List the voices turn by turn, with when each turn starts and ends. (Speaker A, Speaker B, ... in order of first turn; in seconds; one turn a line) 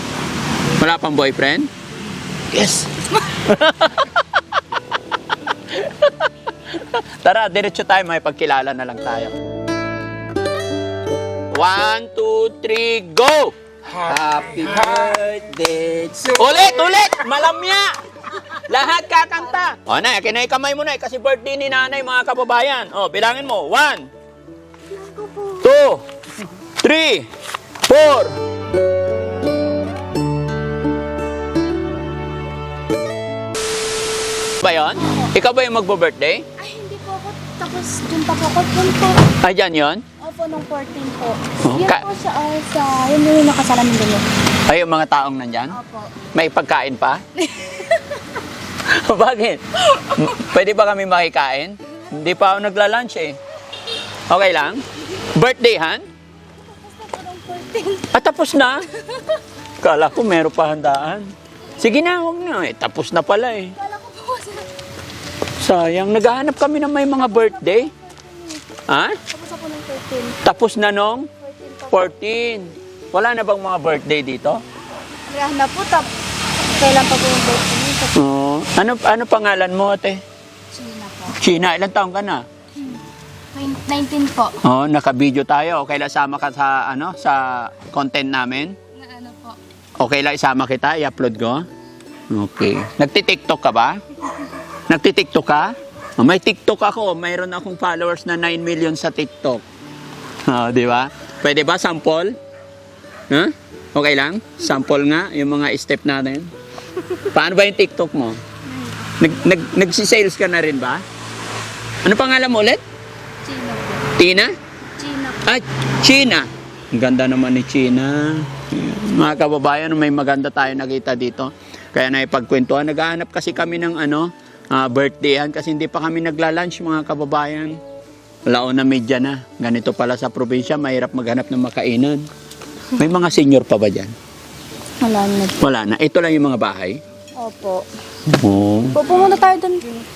Speaker A: 0.8-1.7
Speaker A: 2.5-4.2
Speaker A: 5.7-9.4
Speaker A: 11.5-24.1
Speaker B: 25.1-25.5
Speaker A: 25.6-26.0
Speaker A: 26.8-27.3
Speaker A: 27.9-28.3
Speaker A: 34.6-36.5
Speaker B: 36.6-39.3
Speaker A: 39.4-40.0
Speaker B: 40.2-44.3
Speaker A: 41.6-42.1
Speaker A: 44.7-45.8
Speaker B: 45.8-46.1
Speaker A: 46.3-47.2
Speaker B: 47.4-48.1
Speaker A: 48.8-53.4
Speaker A: 54.3-56.0
Speaker B: 56.8-58.1
Speaker A: 58.1-58.9
Speaker A: 59.8-63.8
Speaker B: 63.8-64.7
Speaker A: 65.6-67.9
Speaker B: 67.8-68.6
Speaker A: 68.9-69.2
Speaker B: 69.3-70.4
Speaker A: 70.4-71.3
Speaker B: 71.4-71.9
Speaker A: 71.9-74.6
Speaker B: 75.3-76.1
Speaker B: 76.7-78.2
Speaker A: 78.1-80.2
Speaker B: 80.7-81.4
Speaker A: 81.3-82.5
Speaker B: 83.5-84.6
Speaker A: 84.6-88.8
Speaker B: 89.0-89.6
Speaker A: 90.0-91.7
Speaker A: 92.3-94.0
Speaker A: 94.9-99.6
Speaker A: 100.5-102.3
Speaker A: 103.3-106.5
Speaker A: 107.1-108.4
Speaker B: 108.7-109.0
Speaker A: 109.2-111.0
Speaker A: 112.0-112.8
Speaker B: 113.5-114.1
Speaker A: 114.2-114.5
Speaker B: 115.0-115.4
Speaker A: 115.5-127.8
Speaker A: 128.5-132.2
Speaker A: 133.0-134.1
Speaker B: 135.0-135.6
Speaker A: 135.6-137.0
Speaker B: 137.4-137.9
Speaker A: 138.3-139.0
Speaker B: 138.9-140.0